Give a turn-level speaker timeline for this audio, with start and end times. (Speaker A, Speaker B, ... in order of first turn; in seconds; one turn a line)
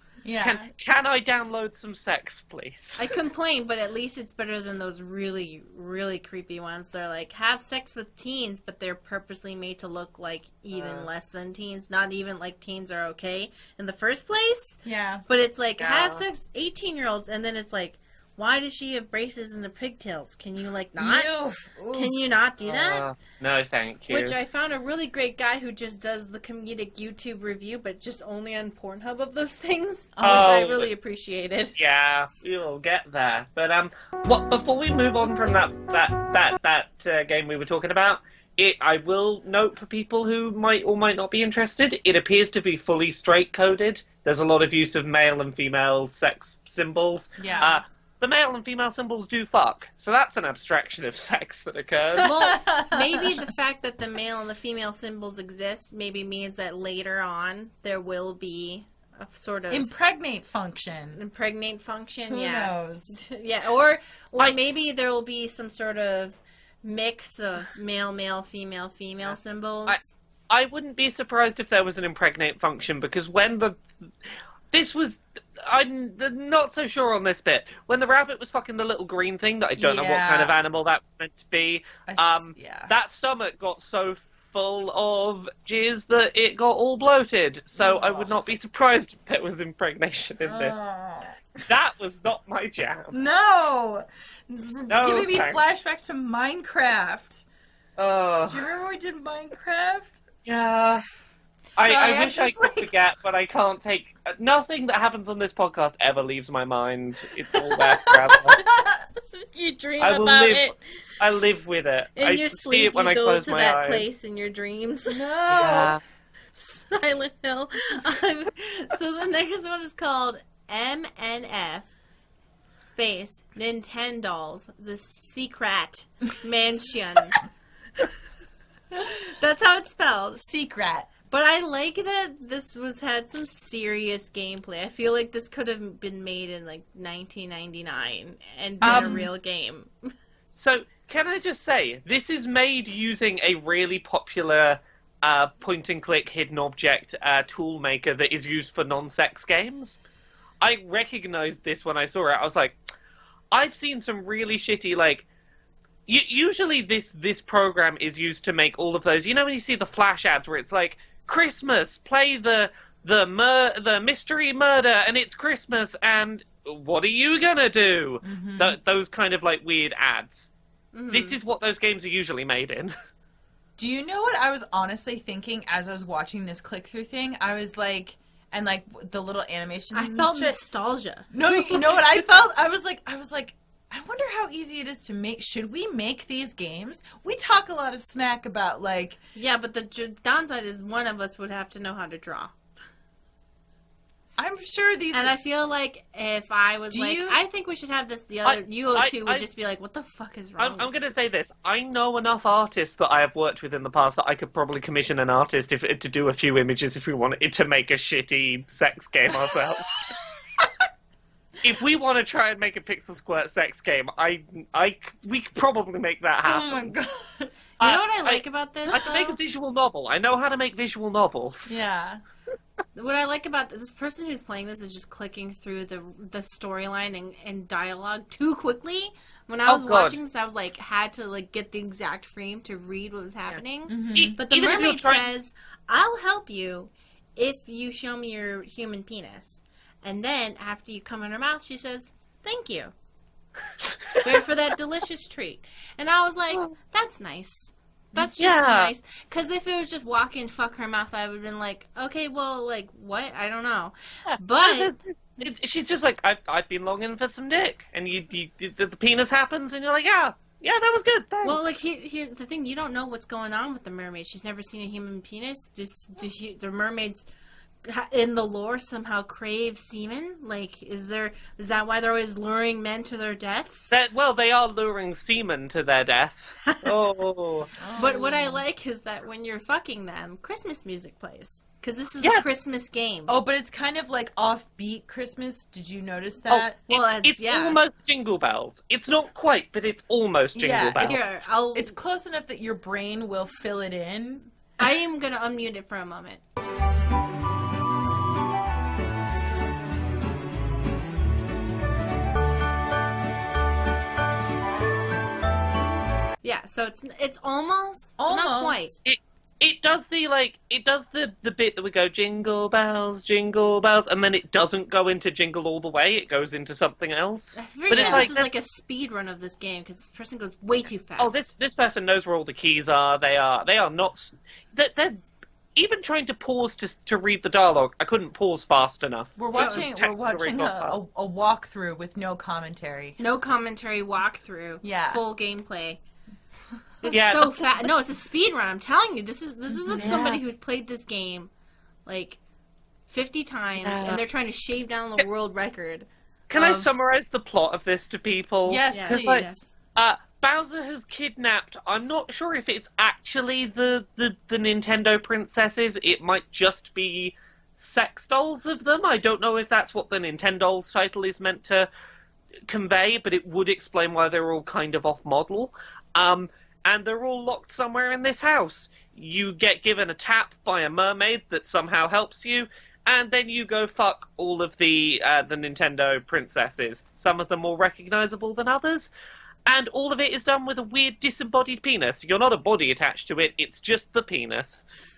Speaker A: 0.2-0.7
Speaker B: 0.4-3.1
Speaker C: 3.0-14.8
Speaker B: 10.7-11.1
Speaker A: 14.8-15.2
Speaker C: 15.3-21.3
Speaker B: 15.8-16.2
Speaker A: 21.0-22.1
Speaker C: 21.9-23.0
Speaker B: 22.6-24.4
Speaker C: 24.1-31.8
Speaker A: 30.1-30.6
Speaker B: 30.2-30.9
Speaker B: 31.8-52.3
Speaker C: 34.9-35.7
Speaker A: 47.4-47.8
Speaker A: 52.2-53.5
Speaker C: 52.2-59.9
Speaker A: 59.7-61.2
Speaker C: 61.1-70.2
Speaker A: 62.3-63.2
Speaker B: 69.8-73.9
Speaker B: 74.7-90.8
Speaker A: 79.8-80.5
Speaker A: 82.1-82.9
Speaker A: 87.8-88.3
Speaker A: 90.4-91.6
Speaker B: 91.7-93.2
Speaker A: 93.1-97.4
Speaker B: 94.9-95.8
Speaker B: 98.0-98.7
Speaker A: 98.5-100.2
Speaker B: 100.5-101.0
Speaker B: 101.8-108.7
Speaker A: 101.8-102.9
Speaker A: 107.5-109.0
Speaker C: 109.5-110.8
Speaker B: 110.0-114.1
Speaker C: 112.2-115.2
Speaker A: 115.1-115.9
Speaker B: 115.5-116.0
Speaker C: 116.5-121.9
Speaker C: 122.8-127.4
Speaker A: 128.9-129.3
Speaker C: 129.4-130.4
Speaker A: 130.4-131.1
Speaker C: 131.3-139.9
Speaker B: 138.8-139.3
Speaker A: 138.8-139.3
Speaker B: 140.5-150.0
Speaker B: 150.6-152.8
Speaker B: 153.5-155.2
Speaker B: 156.1-170.5
Speaker A: 168.2-168.8
Speaker C: 170.9-171.4
Speaker B: 171.1-172.9
Speaker A: 173.8-180.6
Speaker C: 179.9-182.2
Speaker A: 181.3-189.2
Speaker C: 189.3-192.6
Speaker A: 194.3-195.3
Speaker C: 195.1-200.9
Speaker A: 196.9-197.4
Speaker B: 198.4-199.5
Speaker B: 200.6-209.8
Speaker A: 209.3-209.6
Speaker B: 211.6-216.9
Speaker A: 216.4-217.5
Speaker B: 217.8-221.8
Speaker C: 217.8-219.4
Speaker A: 221.7-222.2
Speaker C: 222.9-242.9
Speaker B: 229.7-230.2
Speaker A: 233.9-234.4
Speaker B: 234.1-235.3
Speaker C: 244.2-254.9
Speaker B: 248.4-248.9
Speaker B: 254.3-261.8
Speaker C: 261.4-267.2
Speaker C: 267.8-273.9
Speaker B: 273.9-277.7
Speaker C: 276.6-277.0
Speaker A: 277.8-278.6
Speaker C: 277.9-283.3
Speaker A: 283.3-286.8
Speaker B: 286.5-291.2
Speaker C: 286.9-287.8
Speaker A: 290.5-294.5
Speaker C: 291.0-291.9
Speaker C: 294.8-296.4
Speaker C: 306.4-308.9
Speaker A: 308.2-309.0
Speaker B: 309.0-318.5
Speaker C: 317.5-321.5
Speaker A: 317.9-318.3
Speaker B: 321.2-325.2
Speaker B: 325.8-331.0
Speaker A: 329.4-333.2
Speaker C: 329.5-329.9
Speaker C: 333.2-336.0
Speaker A: 334.8-335.2
Speaker C: 337.0-341.5
Speaker B: 337.1-337.6
Speaker A: 339.7-340.3
Speaker B: 339.9-340.4
Speaker C: 342.1-342.4
Speaker C: 343.1-346.9
Speaker B: 343.8-344.2
Speaker B: 346.5-361.9
Speaker A: 348.6-349.5
Speaker C: 348.9-349.7
Speaker B: 362.7-379.1
Speaker B: 379.6-384.8